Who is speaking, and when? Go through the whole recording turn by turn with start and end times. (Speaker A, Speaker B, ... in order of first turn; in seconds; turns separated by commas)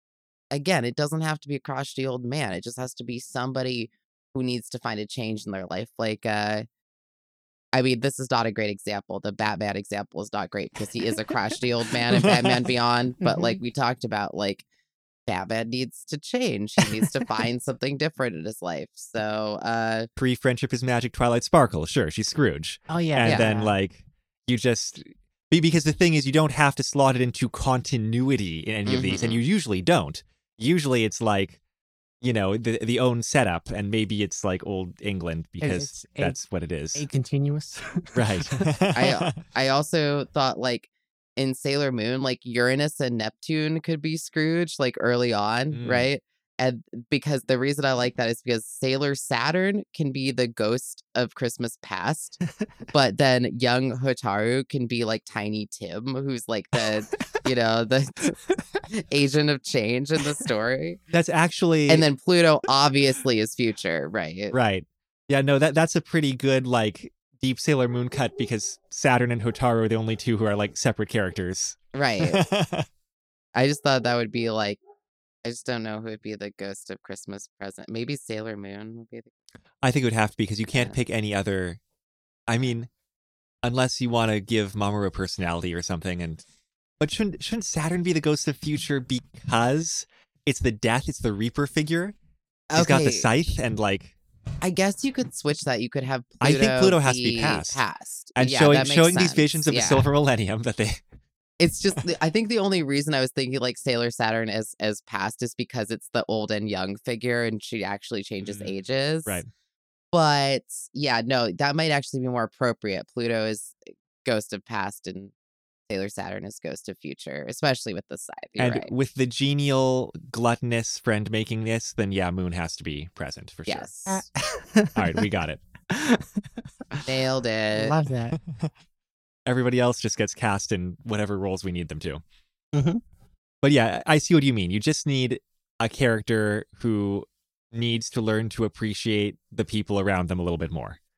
Speaker A: 0.5-6.7, Speaker A: 7.7-14.6, Speaker B: 12.1-12.6, Speaker C: 13.2-13.6, Speaker A: 15.3-20.1, Speaker B: 20.2-31.6, Speaker C: 22.9-23.7, Speaker A: 28.9-29.4, Speaker B: 32.2-37.0, Speaker C: 35.6-36.4, Speaker C: 36.9-38.6, Speaker B: 38.1-39.4, Speaker A: 38.9-52.4, Speaker B: 45.7-46.1, Speaker A: 52.9-58.4, Speaker C: 56.8-57.4, Speaker C: 58.5-58.8, Speaker A: 58.9-61.0, Speaker B: 61.1-62.0, Speaker A: 61.9-64.5, Speaker B: 64.5-72.9, Speaker A: 71.9-72.4, Speaker A: 73.5-74.8, Speaker A: 75.4-79.3, Speaker B: 79.8-81.8, Speaker B: 82.5-82.9, Speaker B: 83.6-86.4, Speaker B: 87.0-92.1, Speaker A: 92.7-93.3, Speaker B: 92.7-94.1, Speaker A: 94.6-100.0, Speaker B: 96.4-97.8, Speaker B: 98.3-101.0, Speaker A: 101.6-109.4, Speaker B: 108.4-108.7, Speaker A: 110.1-115.3, Speaker A: 115.9-118.9, Speaker B: 118.6-123.9, Speaker A: 123.7-124.2, Speaker C: 124.1-125.2, Speaker B: 124.9-125.6, Speaker C: 125.9-127.0, Speaker A: 127.0-127.9, Speaker C: 127.7-128.4, Speaker B: 128.4-128.7, Speaker B: 129.4-132.2, Speaker C: 132.7-133.0, Speaker B: 133.6-141.0